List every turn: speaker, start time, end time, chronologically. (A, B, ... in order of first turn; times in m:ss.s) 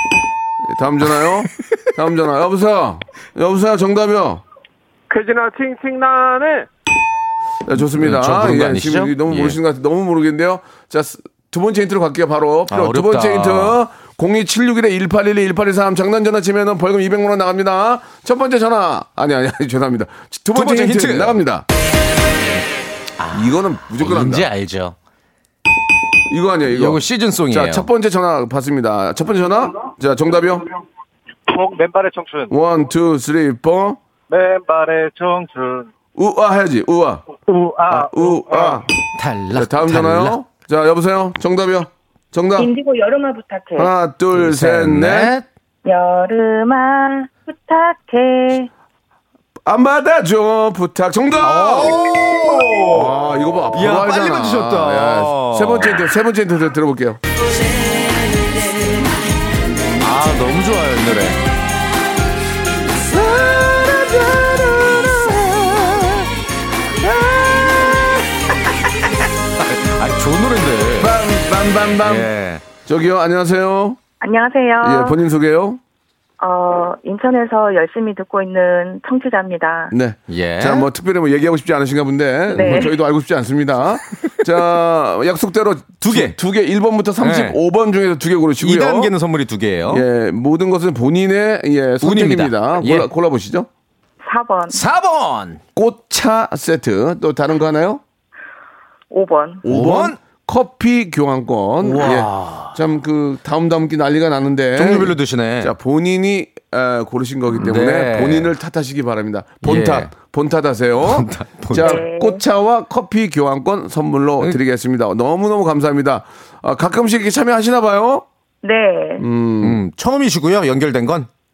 0:00.6-0:04.4 A
0:07.6-0:21.6 A
0:08.0-0:09.6 B
0:12.7-0:13.8 B
0:20.5-0:21.4 B
0:23.2-0:25.0 B
0:23.3-0:24.5 A
0:26.3-0:30.7 A
0:26.7-0:27.9 B
0:31.5-0:32.5 C
0:32.5-0:34.0 A
0:34.3-0:35.9 C
0:36.1-0:37.3 A
0:37.4-0:38.8 C
0:37.9-0:38.8 A
0:39.2-0:40.4 B
0:39.5-0:42.7 A
0:42.6-0:43.9 D
0:43.8-0:45.3 A
0:44.3-0:45.4 B
0:45.8-0:48.7 D
0:49.6-0:52.0 A
0:51.4-0:53.1 B
0:52.9-0:57.2 A
0:53.7-0:56.0 B
1:00.0-1:01.4 B
1:03.0-1:05.8 A
1:05.7-1:06.1 B
1:07.0-1:07.9 A
1:09.6-1:11.2 B
1:11.0-1:12.3 A
1:12.0-1:12.6 B
1:12.8-1:14.0 A
1:14.2-1:15.2 D
1:14.8-1:15.8 A
1:16.4-1:19.9 D
1:19.9-1:29.1 A
1:20.3-1:20.9 B
1:22.5-1:22.9 D
1:26.0-1:26.4 B
1:27.2-1:27.6 B
1:28.6-1:30.0 B
1:29.9-1:33.7 A
1:32.0-1:33.1 B
1:34.2-1:34.8 D
1:34.7-1:35.6 B
1:35.8-1:38.0 A
1:39.1-1:39.6 D
1:39.6-1:58.2 A
1:39.6-1:40.2 B
1:41.8-1:42.8 B
1:44.8-1:45.7 B
1:47.6-1:48.5 B
1:49.6-1:50.1 B
1:51.0-1:52.0 B
1:51.7-1:52.4 D
1:58.6-1:59.2 D
1:59.2-1:59.8 A
1:59.6-2:01.3 B